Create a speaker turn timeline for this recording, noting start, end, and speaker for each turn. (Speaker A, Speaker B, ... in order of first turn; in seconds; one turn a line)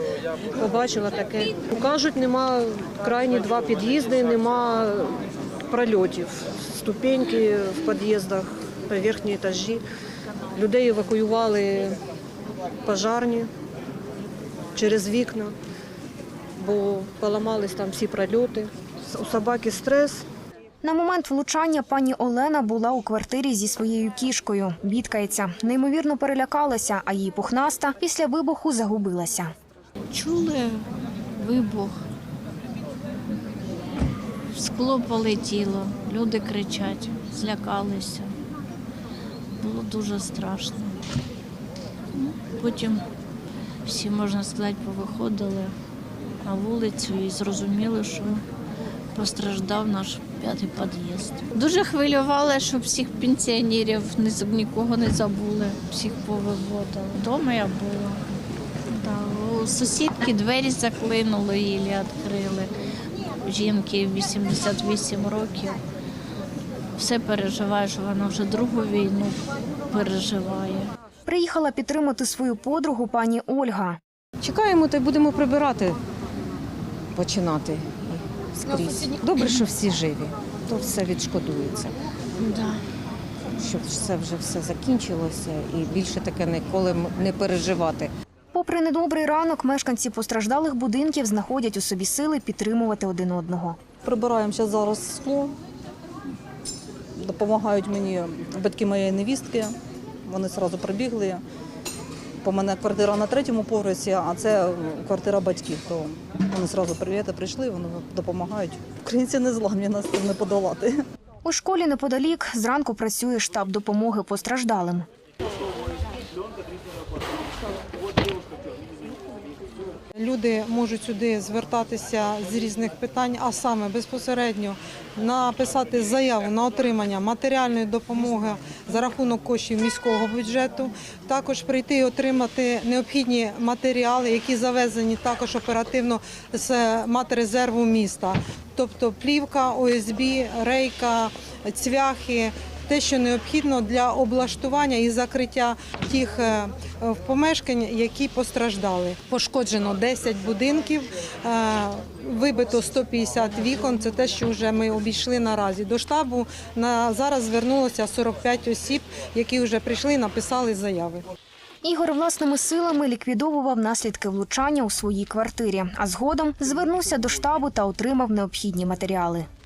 Speaker A: 0.6-9.8
Speaker A: 10.6-12.0
Speaker A: 12.8-13.5
Speaker A: 14.8-15.5
Speaker A: 16.6-20.2
Speaker B: 20.8-29.5
Speaker C: 30.1-30.8
Speaker C: 31.4-31.9
Speaker C: 34.6-38.3
Speaker C: 39.6-41.0
Speaker C: 42.2-43.0
Speaker C: 43.9-45.7
Speaker C: 46.5-48.4
Speaker C: 49.2-58.2
Speaker C: 59.0-62.7
Speaker C: 63.5-65.7
Speaker C: 67.0-69.3
Speaker C: 69.9-70.9
Speaker B: 71.3-74.0
Speaker D: 74.4-76.0
Speaker D: 77.2-82.0
Speaker C: 82.5-82.7
Speaker D: 83.6-88.1
Speaker B: 88.5-93.8
Speaker E: 94.0-95.5
Speaker E: 97.2-101.4
Speaker E: 102.4-111.0
Speaker B: 111.4-115.1
Speaker F: 120.2-161.2
Speaker B: 161.8-169.5